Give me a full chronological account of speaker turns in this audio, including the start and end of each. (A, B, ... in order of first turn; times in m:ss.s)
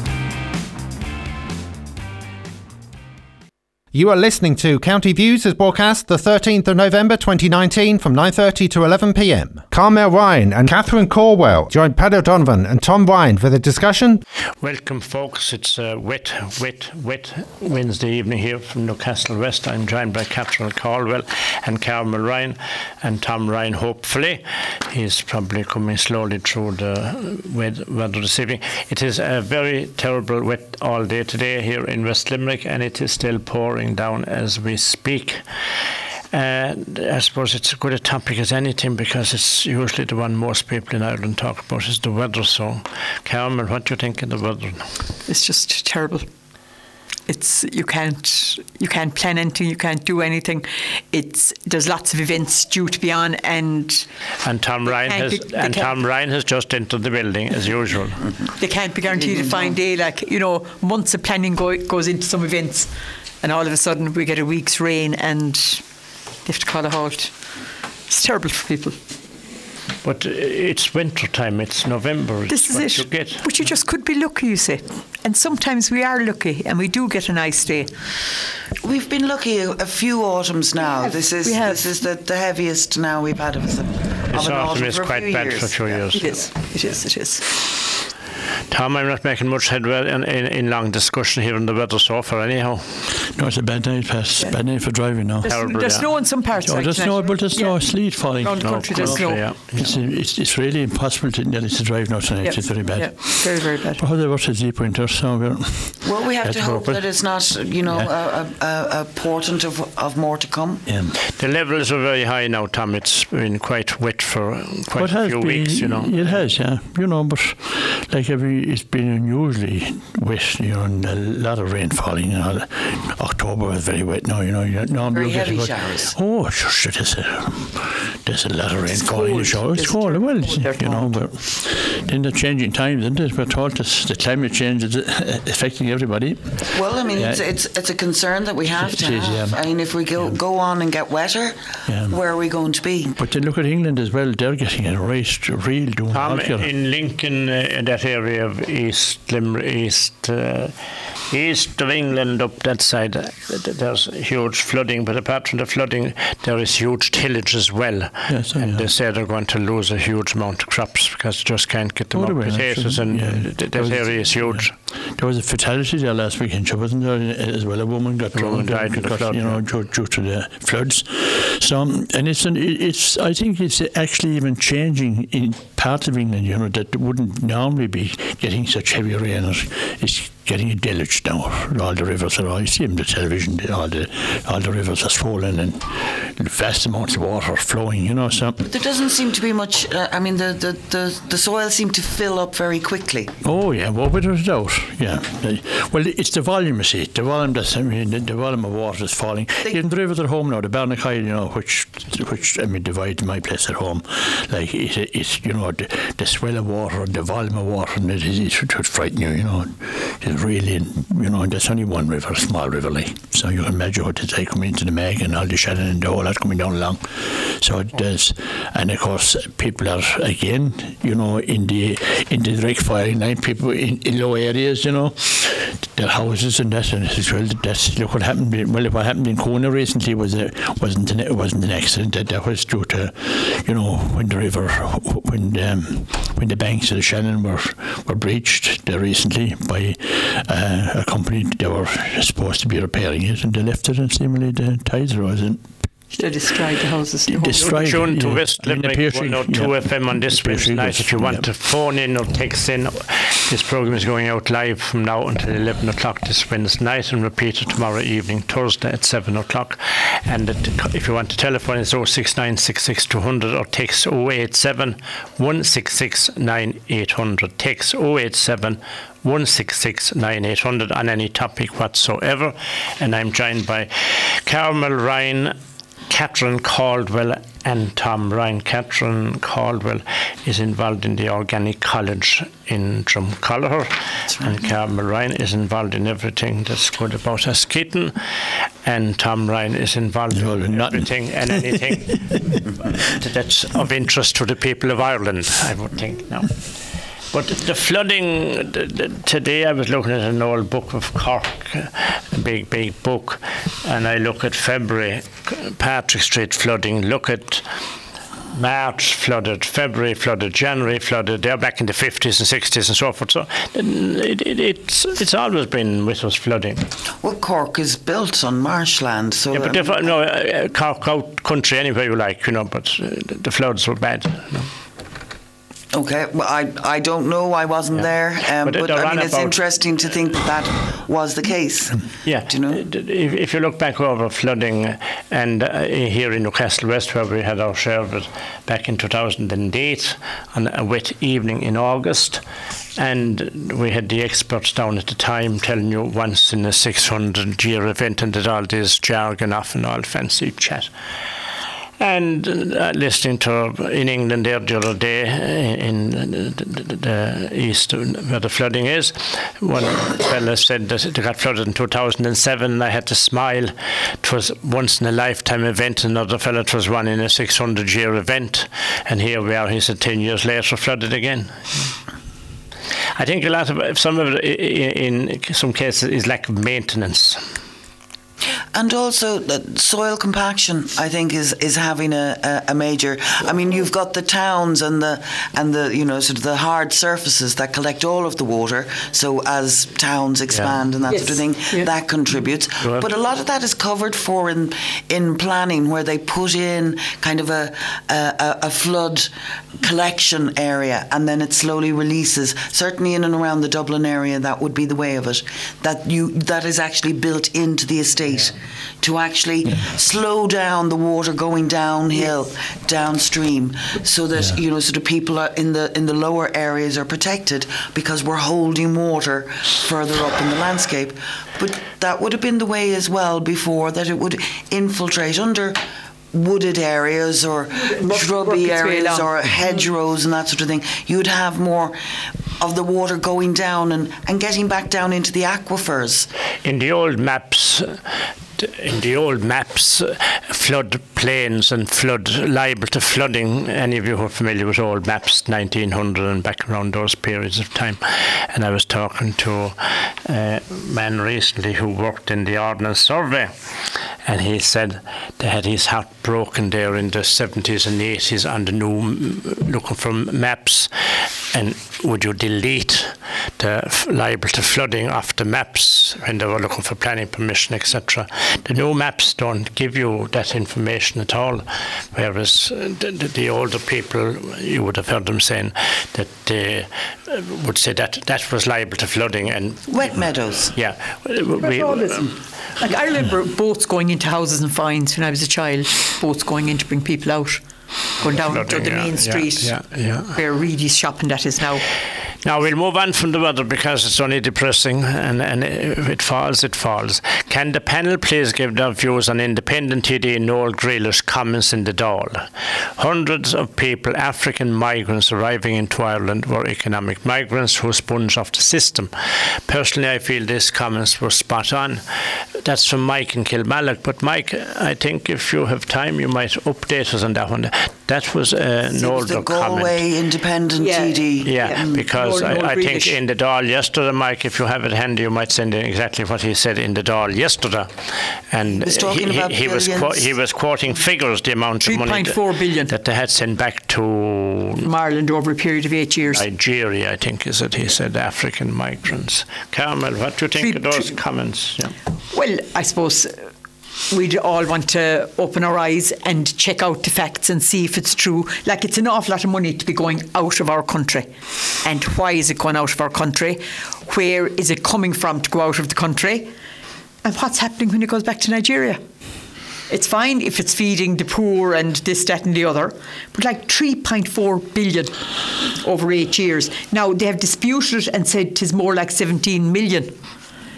0:03.9-0:14.2 A
0:14.6-0:35.4 B
0:36.3-0:44.9 B
0:45.2-0:46.2 C
0:47.3-0:54.0 C
0:54.4-0:58.3 B
0:54.8-0:55.9 C
0:58.6-1:05.8 C
1:06.4-1:07.4 C
1:08.1-1:09.0 C
1:10.0-1:13.4 B
1:12.5-1:17.9 C
1:18.8-1:26.0 D
1:20.8-1:21.8 C
1:24.3-1:26.3 B
1:26.1-1:27.6 C
1:28.7-1:33.0 B
1:33.3-1:35.5 E
1:35.4-1:39.4 C
1:35.5-1:36.0 B
1:36.6-1:47.0 E
1:38.6-1:39.9 B
1:42.4-1:44.0 C
1:46.0-1:50.8 D
1:50.8-1:51.2 E
1:51.4-1:56.4 B
1:55.0-2:17.4 E
2:05.1-2:06.2 D
2:08.8-2:11.2 C
2:16.7-2:21.6 D
2:18.7-2:19.6 E
2:21.9-2:22.2 E
2:22.1-2:23.1 D
2:23.1-2:26.7 E
2:26.1-2:30.7 B
2:31.3-2:44.7 B
2:38.3-2:38.9 E
2:42.1-3:08.6 E
2:48.3-2:49.6 B
3:08.6-3:13.3 D
3:13.4-4:05.7 E
4:06.1-4:07.8 C
4:07.3-4:11.4 E
4:07.5-4:35.6 B
4:36.1-4:48.1 B
4:48.8-4:56.6 B
4:50.3-4:52.3 E
4:57.3-5:07.6 B
5:08.5-5:16.8 B
5:17.2-5:20.1 D
5:19.5-5:24.7 B
5:25.9-5:32.8 D
5:28.6-5:29.6 B
5:32.2-5:42.4 B
5:43.0-5:50.9 B
5:52.0-6:11.9 B
6:13.2-6:17.4 B
6:18.7-7:05.8 D
6:31.1-6:31.9 C
6:32.8-6:33.1 B
7:06.3-7:12.0 D
7:07.7-7:09.3 C
7:12.6-7:16.3 D
7:16.6-7:18.0 B
7:18.6-7:33.5 B
7:34.2-7:40.9 B
7:41.5-8:00.2 B
7:59.9-8:00.7 D
8:00.7-8:02.3 B
8:01.6-8:07.6 C
8:08.2-8:11.8 C
8:08.5-8:10.4 B
8:12.4-8:22.4 B
8:23.0-8:29.1 B
8:29.7-8:32.0 B
8:32.6-8:40.0 B
8:38.9-8:41.9 D
8:40.8-8:43.2 C
8:41.4-8:47.9 B
8:48.5-8:54.8 B
8:48.8-8:50.3 D
8:51.8-8:52.9 C
8:54.8-8:56.4 C
8:56.3-9:01.9 B
9:00.6-9:01.2 C
9:02.3-9:03.5 C
9:04.1-9:11.3 C
9:11.8-9:16.5 C
9:17.2-9:19.0 C
9:19.9-9:25.1 C
9:25.8-9:30.1 C